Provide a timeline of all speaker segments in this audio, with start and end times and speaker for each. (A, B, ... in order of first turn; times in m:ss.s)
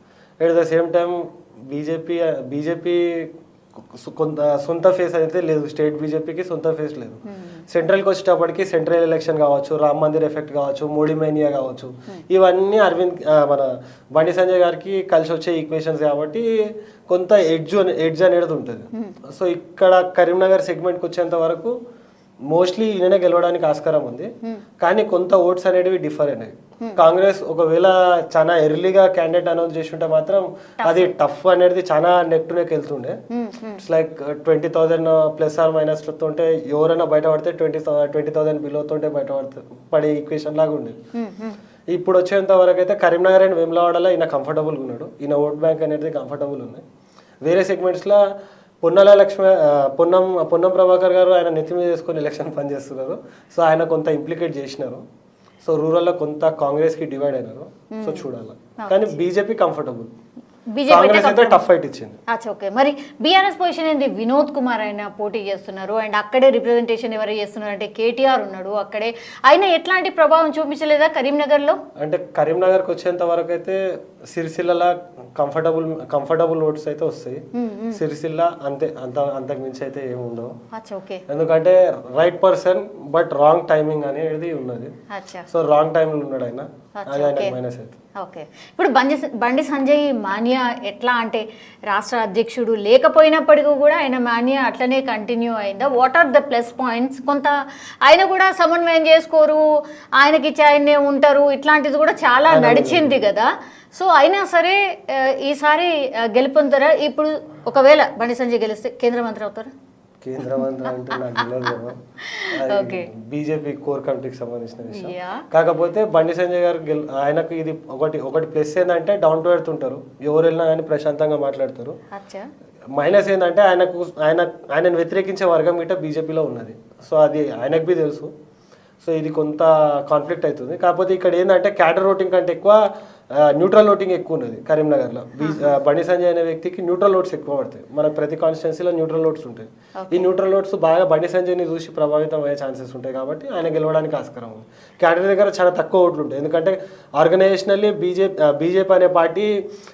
0:00.4-0:16.5 A
0:07.3-0:07.6 B
0:17.1-0:21.7 A
0:22.5-0:33.2 A
0:30.8-0:31.1 B
0:33.3-0:33.8 B
0:33.8-0:41.0 A
0:41.1-0:41.6 B
0:41.9-0:46.8 A
0:47.4-0:48.3 A
0:48.8-0:55.0 A
0:55.6-1:00.1 A
0:57.9-0:58.3 B
0:58.8-0:59.1 B
1:00.7-1:01.6 B
1:00.9-1:02.2 A
1:02.3-1:11.8 B
1:12.0-1:17.4 A
1:17.5-1:18.0 B
1:17.9-1:20.5 A
1:20.7-1:21.2 B
1:21.3-1:24.9 A
1:25.1-1:25.5 B
1:25.5-1:28.0 A
1:27.0-1:27.5 B
1:28.2-1:39.6 B
1:40.2-1:49.7 B
1:42.5-1:43.2 A
1:50.2-2:02.0 A
1:50.6-1:51.6 B
1:52.2-1:53.1 B
1:54.9-1:55.4 B
2:02.1-2:02.5 B
2:03.0-2:08.3 A
2:09.0-2:12.8 A
2:13.4-2:29.5 A
2:15.4-2:15.7 B
2:20.0-2:20.3 B